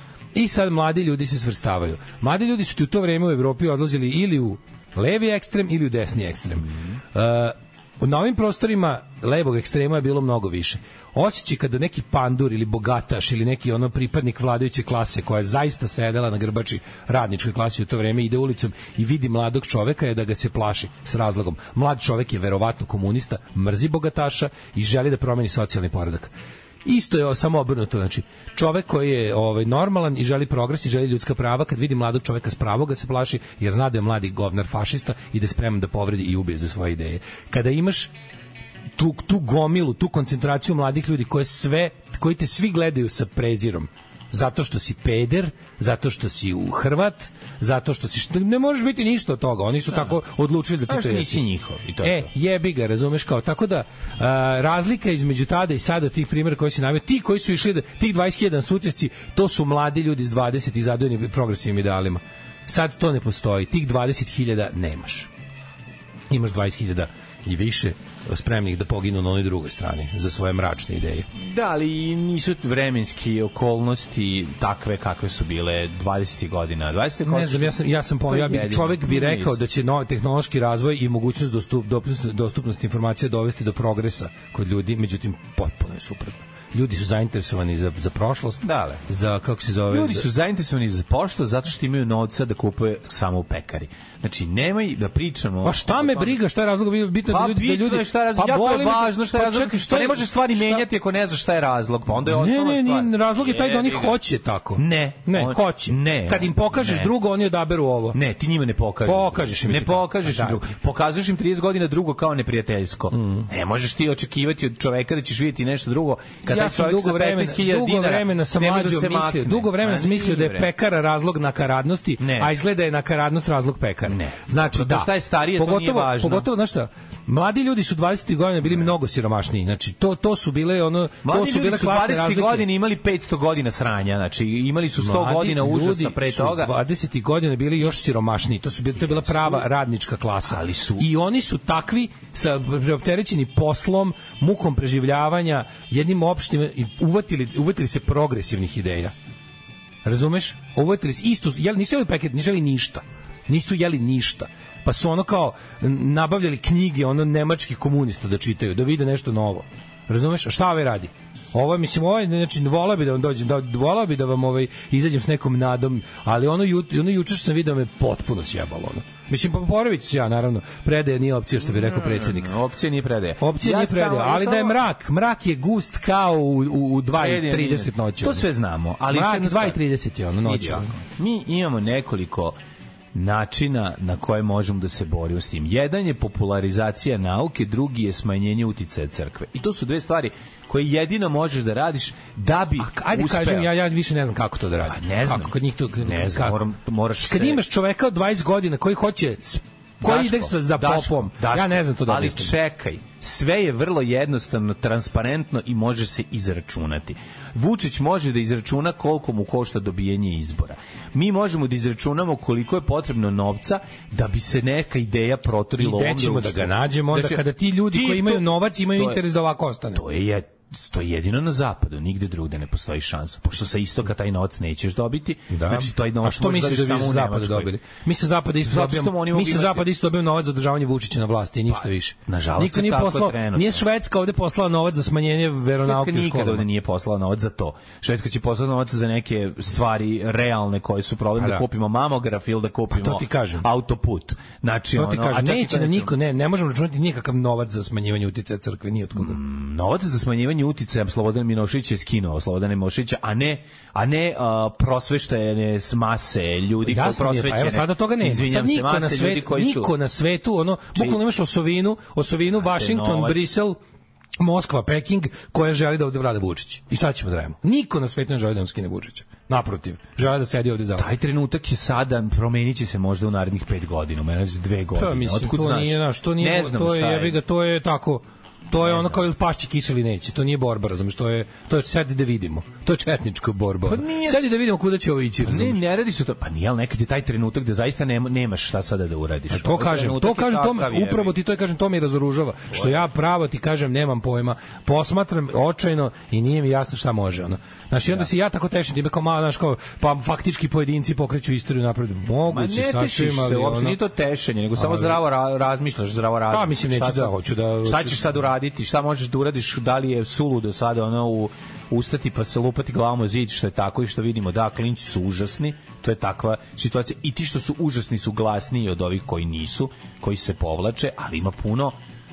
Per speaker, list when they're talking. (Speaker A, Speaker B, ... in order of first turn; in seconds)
Speaker A: 0.3-26.3, 26.8-38.1, 39.0-51.4, 52.0-65.3, 66.3-71.3, 77.2-90.3, 95.6-100.8, 102.3-108.2, 109.0-110.6, 113.1-113.5, 116.4-132.7, 135.0-149.1, 150.0-172.5, 173.4-178.5, 179.1-181.0, 192.8-196.6, 197.2-202.5, 215.8-220.0, 225.5-236.7, 241.4-241.6, 242.9-243.7, 244.9-249.4, 256.8-263.8, 264.4-271.1, 274.9-285.8, 289.5-304.0, 304.8-305.2, 306.5-308.2
Speaker B: 50.9-52.3, 71.3-79.6, 88.6-89.0, 89.9-96.4, 97.2-104.2, 104.8-107.1, 108.1-120.7, 122.2-122.5, 124.0-126.5, 131.2-136.7, 139.0-139.6, 140.4-141.1, 171.6-174.8, 177.1-179.8, 180.4-182.6, 183.1-193.7, 194.8-197.6, 200.0-219.2, 219.9-227.7, 228.6-229.9, 231.7-233.8, 235.8-246.1, 249.1-259.9, 262.6-263.4, 270.9-277.4, 278.7-279.3, 283.8-284.5, 285.4-291.4, 292.7-293.0, 302.5-322.0